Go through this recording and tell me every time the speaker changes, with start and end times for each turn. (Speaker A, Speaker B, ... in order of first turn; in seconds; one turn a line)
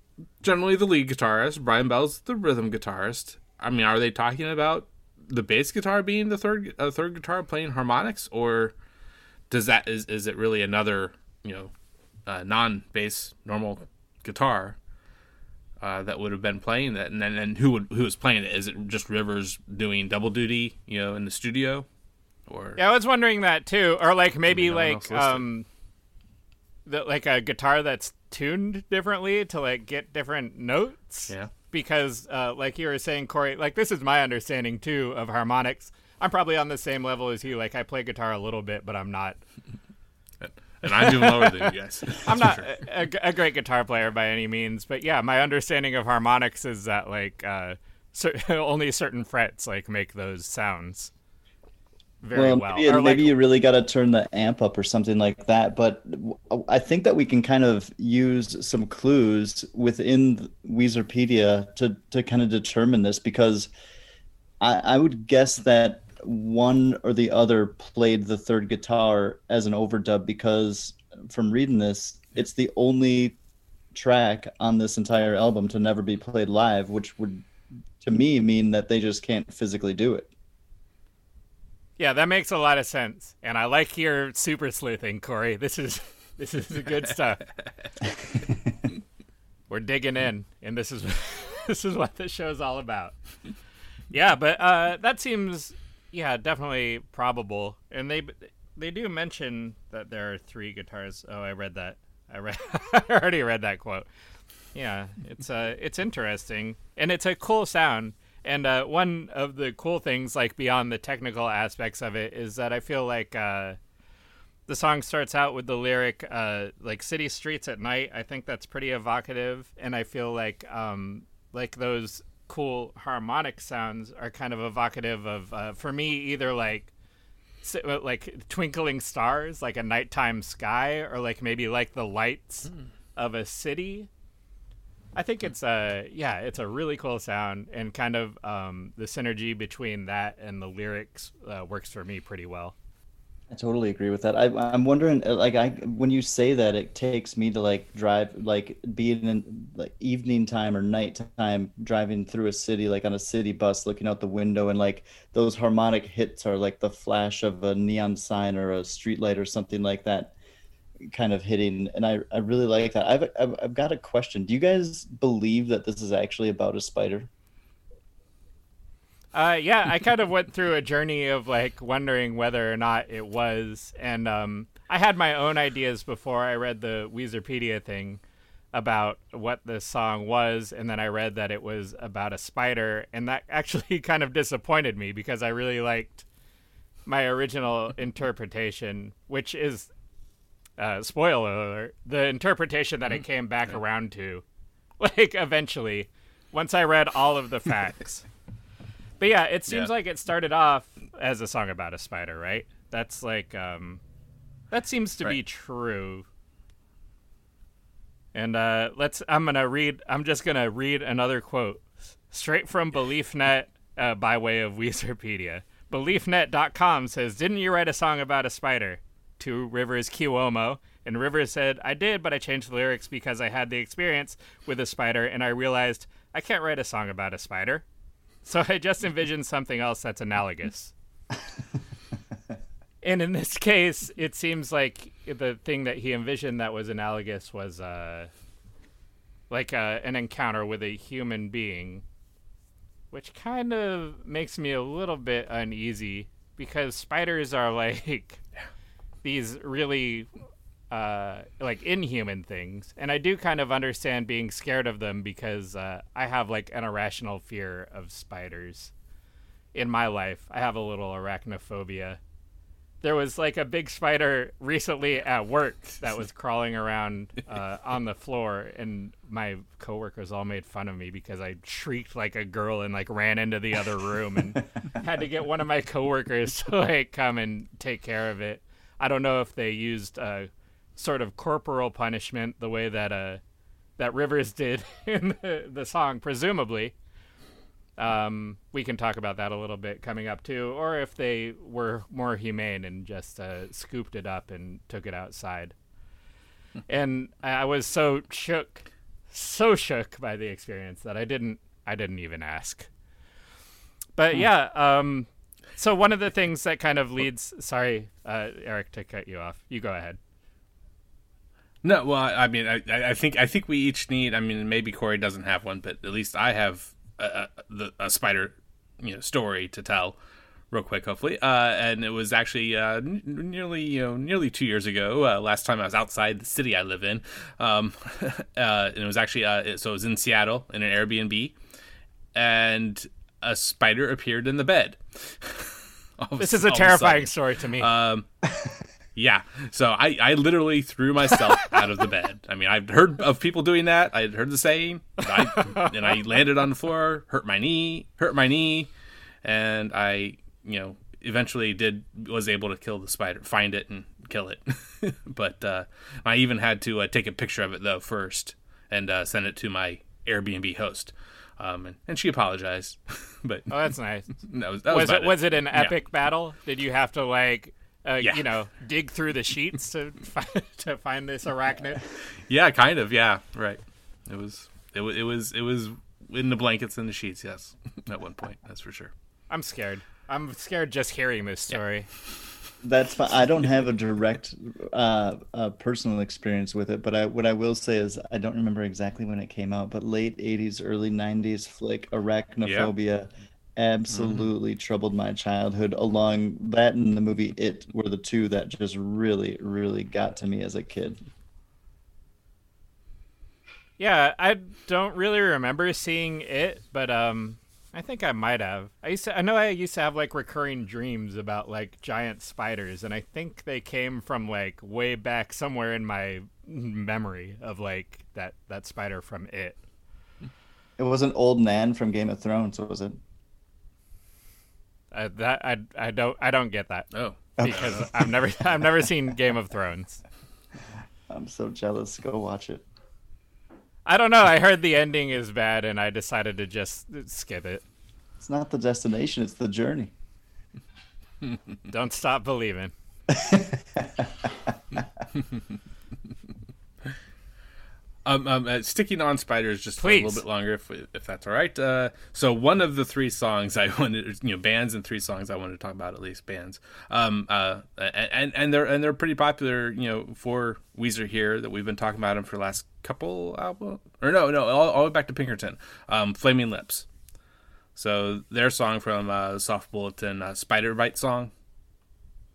Speaker A: 0.4-8.7
Speaker A: 9.5-11.7
Speaker A: 12.2-14.8
Speaker A: 15.8-21.9
Speaker A: 22.5-22.8
Speaker B: 22.8-25.7
Speaker A: 24.5-25.4
Speaker B: 26.9-39.4
Speaker A: 40.4-42.7
Speaker B: 41.0-41.5
Speaker B: 42.2-51.1
Speaker B: 52.2-53.3
Speaker C: 52.3-63.7
Speaker C: 64.6-73.3
Speaker C: 73.9-77.5
Speaker C: 78.0-80.3
Speaker B: 82.0-87.4
Speaker B: 89.7-93.1
Speaker B: 94.1-104.1
Speaker B: 104.7-113.8
Speaker B: 114.7-126.9
Speaker B: 127.6-134.1
Speaker B: 135.2-142.7
Speaker C: 143.5-160.3
Speaker C: 161.0-167.3
Speaker B: 169.3-178.2
Speaker B: 178.7-186.2
Speaker B: 187.1-189.9
Speaker B: 190.8-194.4
Speaker B: 195.0-198.2
Speaker B: 199.2-204.0
Speaker B: 204.7-206.2
Speaker B: 208.3-227.8
Speaker B: 228.4-230.9
Speaker B: 233.0-238.3
Speaker B: 239.5-242.0
Speaker B: 243.1-248.4
Speaker B: 249.2-250.3
Speaker B: 250.9-258.9
Speaker B: 259.7-262.2
Speaker B: 263.0-283.4
Speaker B: 284.0-286.9
Speaker B: 288.0-295.7
Speaker B: 296.9-302.9
Speaker B: 304.2-310.2
Speaker A: 311.8-320.1
Speaker A: 320.7-331.5
Speaker A: 332.3-338.3
Speaker B: 336.4-337.9
Speaker A: 339.1-348.9
Speaker B: 345.4-346.0
Speaker A: 349.4-363.7
Speaker B: 363.7-364.3
Speaker A: 364.4-365.9
Speaker B: 364.9-372.0
Speaker A: 372.4-379.1
Speaker B: 379.5-382.1
Speaker C: 382.8-401.2
Speaker A: 392.6-392.9
Speaker B: 404.0-419.8
Speaker C: 421.0-423.2
Speaker B: 425.1-430.2
Speaker A: 427.1-428.1
Speaker C: 427.6-427.9
Speaker C: 431.3-432.8
Speaker B: 434.0-437.8
Speaker C: 438.4-440.1
Speaker B: 441.9-442.9
Speaker C: 443.3-444.3
Speaker A: 448.2-467.1
Speaker B: 450.0-450.4
Speaker A: 467.9-471.5